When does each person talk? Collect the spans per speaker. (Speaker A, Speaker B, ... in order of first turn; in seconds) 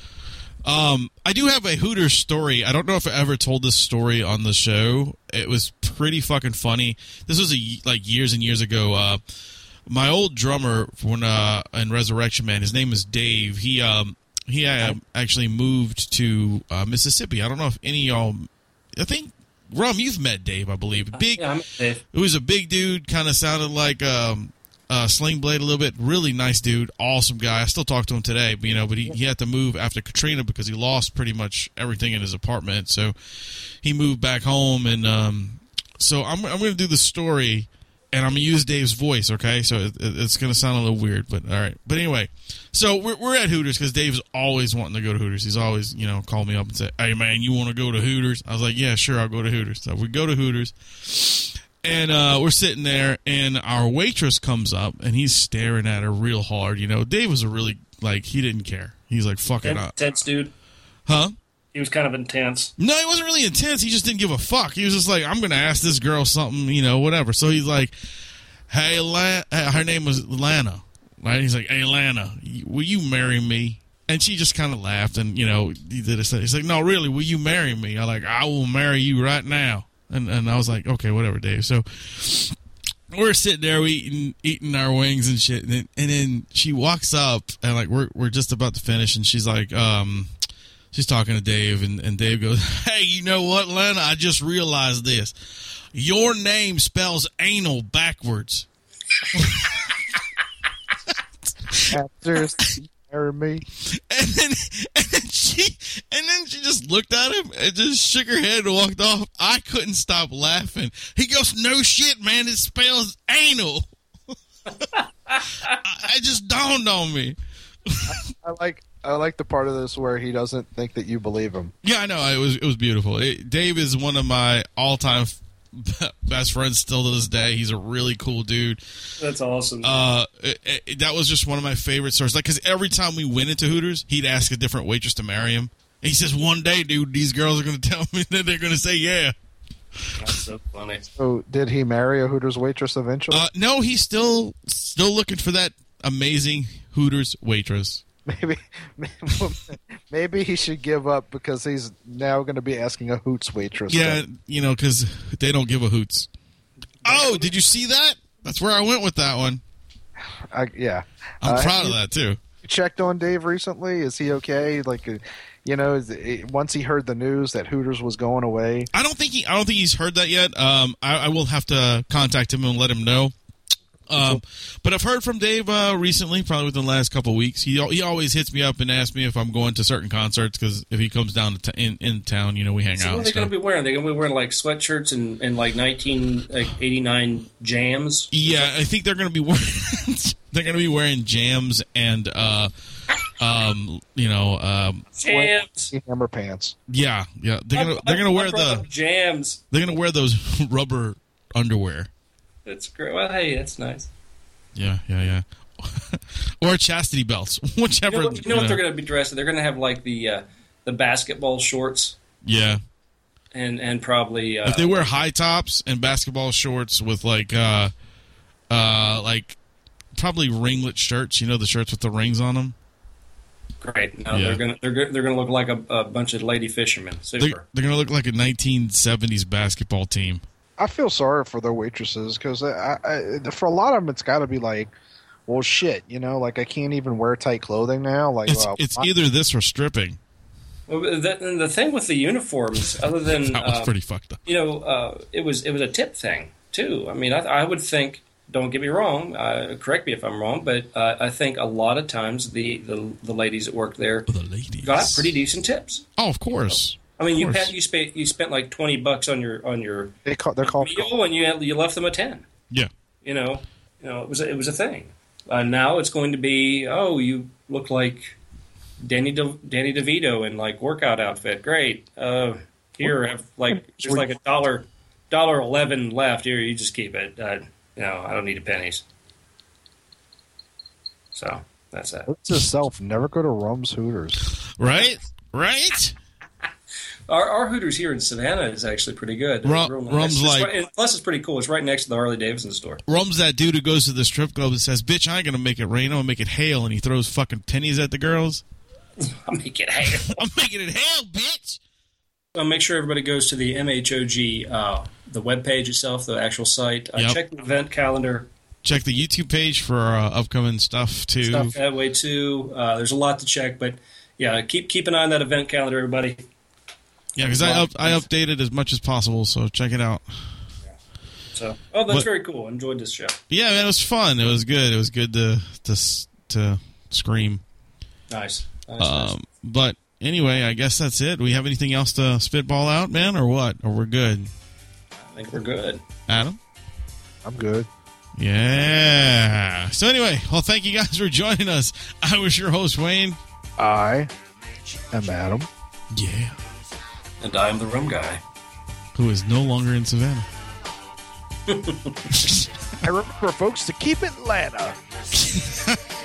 Speaker A: 0.6-9.2, 9.9-21.5, 22.1-60.0, 61.1-61.3, 62.8-67.9, 68.7-82.5, 83.1-90.3, 90.9-95.3, 95.9-98.7, 99.3-99.9, 103.9-113.8, 115.7-117.3, 117.9-118.1, 121.8-128.8, 129.8-139.3, 143.3-148.0, 153.9-156.3, 157.0-159.6, 161.4-162.4, 168.9-173.3, 174.1-183.5, 188.3-192.7, 193.4-195.1, 196.9-198.8, 199.7-202.1, 204.7-208.8, 212.4-212.8, 214.6-217.9, 218.7-219.6, 220.1-222.8, 224.3-224.6, 227.4-230.4, 238.5-240.2, 243.2-244.4, 254.3-255.3, 256.2-257.7, 284.8-286.1, 289.6-290.7, 293.1-298.6, 300.3-301.8, 308.8-311.7, 317.4-320.6, 323.5-327.6, 329.0-334.5, 336.3-336.6, 338.4-343.4, 346.1-346.6, 349.1-350.5, 352.4-352.6, 355.3-356.0
Speaker B: 21.1-22.0, 59.6-60.5, 61.7-62.7, 115.0-115.8, 129.2-129.9, 140.2-141.0, 157.0-157.5, 182.9-188.7, 195.2-195.9, 197.7-199.6, 202.6-204.1, 208.1-212.2, 213.5-215.1, 223.8-227.6, 240.9-243.9, 244.4-254.3, 254.8-256.0, 256.7-262.4, 263.2-268.4, 269.0-279.0, 281.3-282.3, 287.3-293.0, 299.2-300.4, 302.5-308.5, 311.4-316.4, 317.4-318.2, 321.5-323.4, 328.3-329.3, 335.2-336.0, 347.4-348.4, 351.7-352.2
Speaker C: 101.9-103.6, 118.1-121.7, 141.1-143.4, 148.3-154.2, 160.5-162.0, 162.6-168.9, 174.2-174.4, 195.2-196.7, 230.8-234.9, 235.5-239.1, 260.2-261.1, 273.9-274.2, 282.3-284.4, 337.4-337.9, 343.8-344.3, 345.1-345.7, 353.0-355.0